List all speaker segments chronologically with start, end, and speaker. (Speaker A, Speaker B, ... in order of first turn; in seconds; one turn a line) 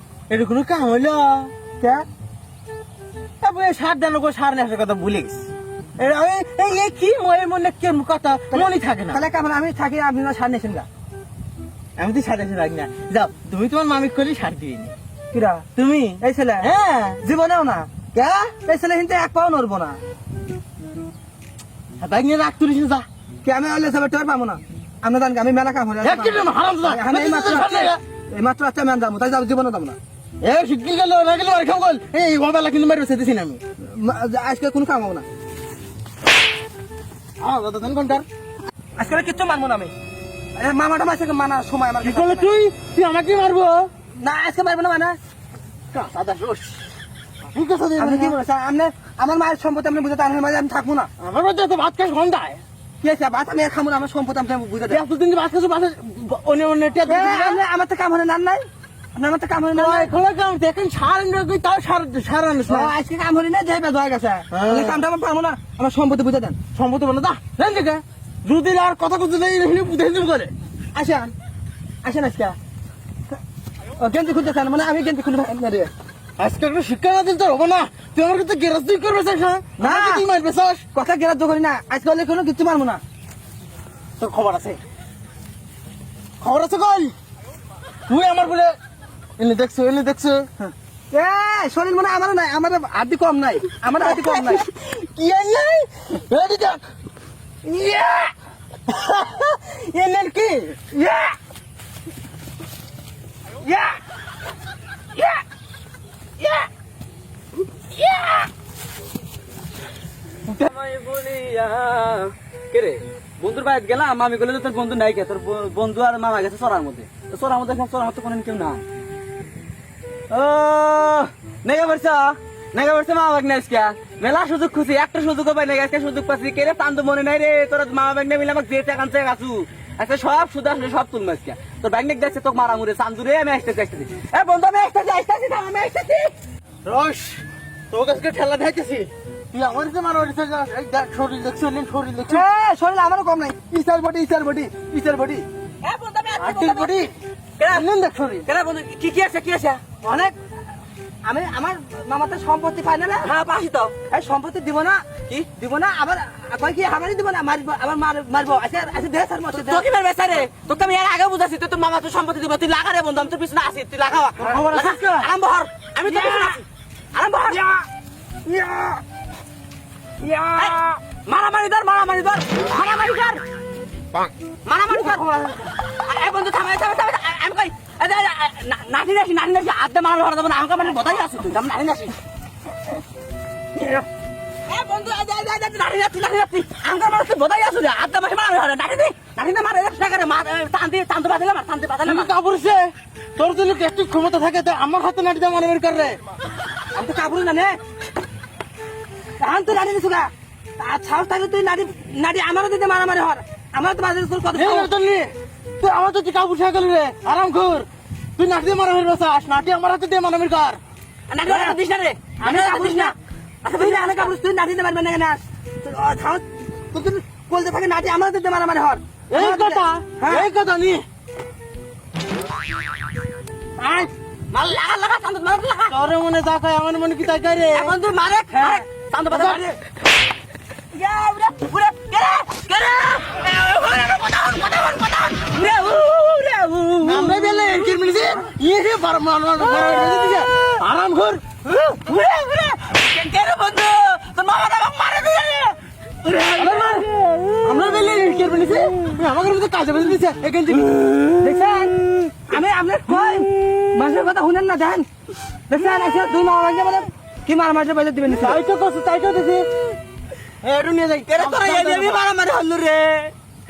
Speaker A: 0.3-1.5
Speaker B: 1.8-2.0
Speaker A: 3.4-9.2
Speaker B: 8.5-10.9
Speaker A: 12.0-14.9
Speaker B: 15.3-15.7
Speaker A: 15.8-17.2
Speaker B: 16.2-16.7
Speaker B: 17.2-20.0
Speaker A: 22.0-23.1
Speaker B: 23.4-30.0
Speaker A: 26.0-28.0
Speaker A: 30.4-33.6
Speaker B: 33.8-35.3
Speaker A: 37.4-38.3
Speaker B: 39.0-39.9
Speaker B: 40.6-42.5
Speaker A: 42.0-43.9
Speaker B: 44.1-45.2
Speaker A: 45.9-46.9
Speaker A: 47.5-48.4
Speaker B: 48.0-51.1
Speaker A: 51.2-52.6
Speaker B: 53.0-55.0
Speaker A: 54.9-57.6
Speaker B: 57.1-60.1
Speaker A: 59.7-62.9
Speaker B: 62.7-66.6
Speaker A: 64.5-65.0
Speaker A: 66.8-70.5
Speaker B: 70.9-71.3
Speaker B: 72.0-72.6
Speaker B: 74.0-75.9
Speaker A: 76.4-80.8
Speaker B: 79.8-80.2
Speaker B: 80.9-83.0
Speaker A: 84.2-84.8
Speaker A: 86.4-87.1
Speaker A: 88.1-88.8
Speaker A: 89.4-90.5
Speaker B: 90.6-94.6
Speaker A: 94.0-96.8
Speaker B: 97.7-98.3
Speaker A: 98.9-100.8
Speaker B: 100.9-101.4
Speaker B: 103.7-104.0
Speaker C: 106.4-106.7
Speaker C: 108.0-108.5
Speaker C: 110.5-118.8
Speaker C: 120.3-136.3
Speaker A: 136.8-142.4
Speaker B: 142.3-145.3
Speaker A: 144.4-145.4
Speaker C: 145.8-147.1
Speaker A: 146.4-147.1
Speaker C: 147.6-147.9
Speaker A: 147.7-148.5
Speaker C: 148.5-149.8
Speaker B: 150.0-150.3
Speaker B: 151.2-153.3
Speaker C: 153.2-153.9
Speaker B: 154.1-159.9
Speaker C: 159.5-166.6
Speaker A: 164.4-165.3
Speaker C: 167.1-167.6
Speaker B: 167.5-167.8
Speaker B: 168.5-169.0
Speaker B: 170.2-171.0
Speaker C: 170.6-173.4
Speaker C: 174.7-182.2
Speaker C: 184.7-192.3
Speaker A: 192.0-196.2
Speaker B: 196.9-197.8
Speaker B: 199.4-204.9
Speaker A: 204.5-210.8
Speaker C: 211.3-214.3
Speaker B: 211.5-211.8
Speaker B: 212.4-213.2
Speaker B: 213.7-220.5
Speaker A: 219.3-221.1
Speaker C: 224.5-226.0
Speaker A: 225.9-228.0
Speaker C: 227.7-229.8
Speaker A: 229.3-229.7
Speaker C: 230.9-237.9
Speaker A: 237.0-241.4
Speaker C: 239.8-240.4
Speaker C: 241.7-247.4
Speaker A: 246.6-247.1
Speaker A: 247.6-251.4
Speaker B: 251.4-255.1
Speaker B: 255.7-258.6
Speaker A: 258.3-259.7
Speaker A: 260.6-262.2
Speaker C: 261.3-263.3